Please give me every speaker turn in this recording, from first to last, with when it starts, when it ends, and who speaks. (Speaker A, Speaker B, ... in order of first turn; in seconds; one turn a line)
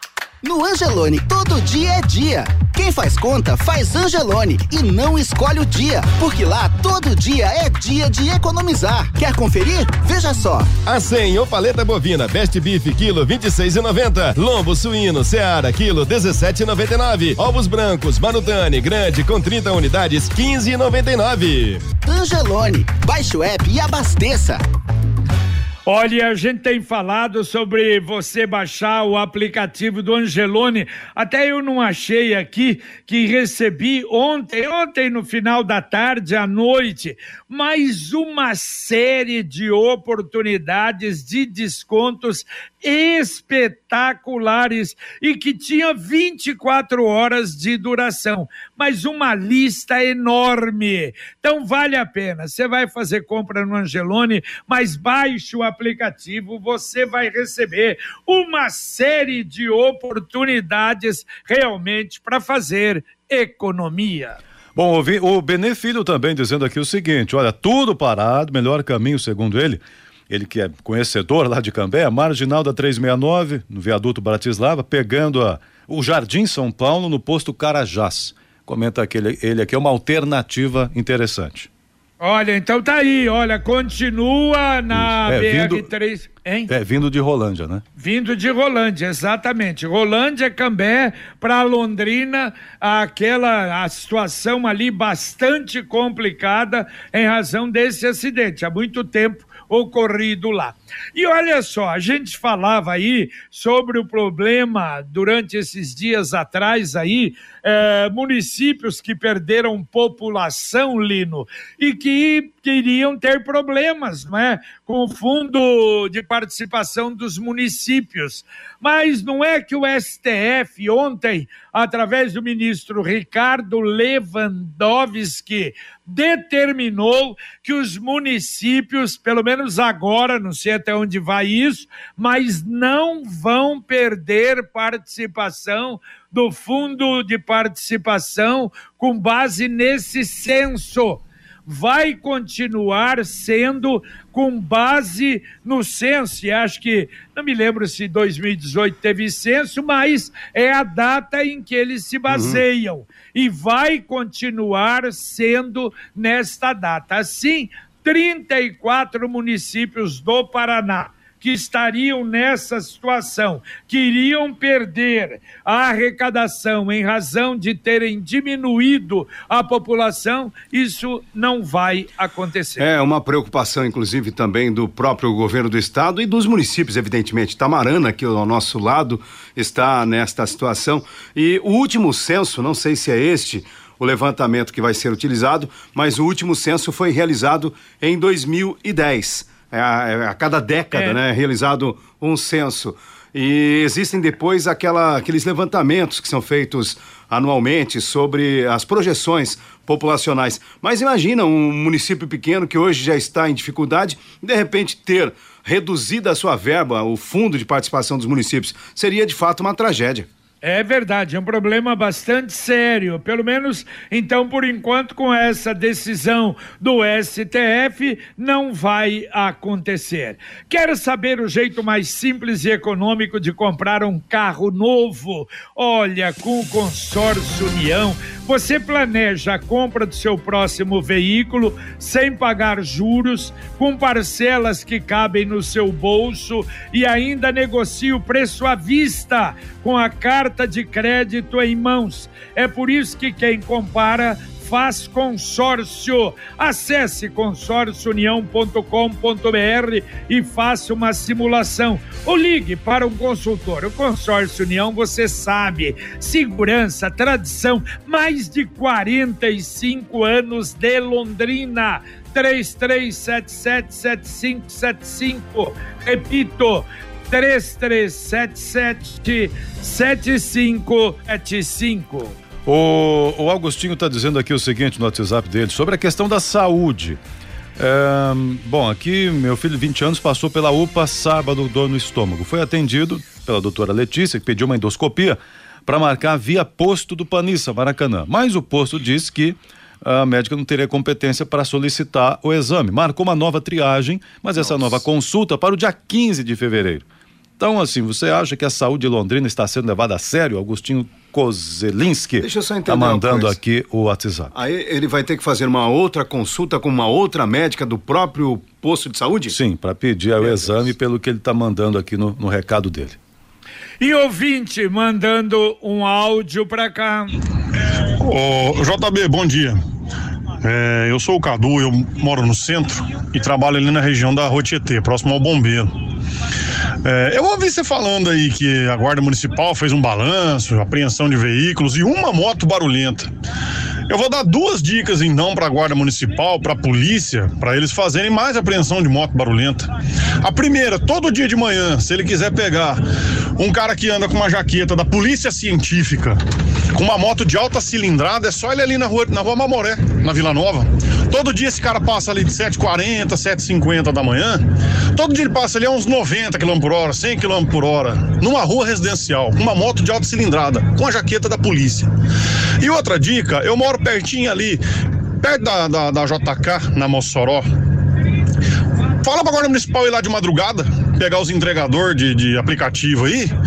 Speaker A: 0.4-10.8
Speaker B: 10.8-21.9
Speaker A: 22.0-24.6
Speaker C: 25.9-64.4
Speaker D: 64.8-81.7
Speaker C: 82.2-86.7
Speaker D: 84.9-85.9
Speaker D: 86.7-87.8
Speaker C: 88.0-172.9
Speaker E: 152.3-152.6
Speaker E: 172.8-210.3
Speaker C: 210.6-272.4
Speaker D: 272.6-277.2
Speaker D: 277.8-297.1
Speaker D: 297.6-304.5
Speaker E: 302.4-303.6
Speaker E: 304.5-309.6
Speaker D: 309.5-313.2
Speaker E: 310.4-310.8
Speaker C: 314.0-317.4
Speaker F: 318.2-319.8
Speaker F: 320.6-325.9
Speaker F: 327.1-333.3
Speaker F: 334.1-339.9
Speaker F: 340.4-343.0
Speaker F: 343.6-346.4
Speaker F: 346.9-354.6
Speaker F: 355.1-362.1
Speaker F: 362.8-364.8
Speaker F: 365.4-367.6
Speaker F: 369.2-373.5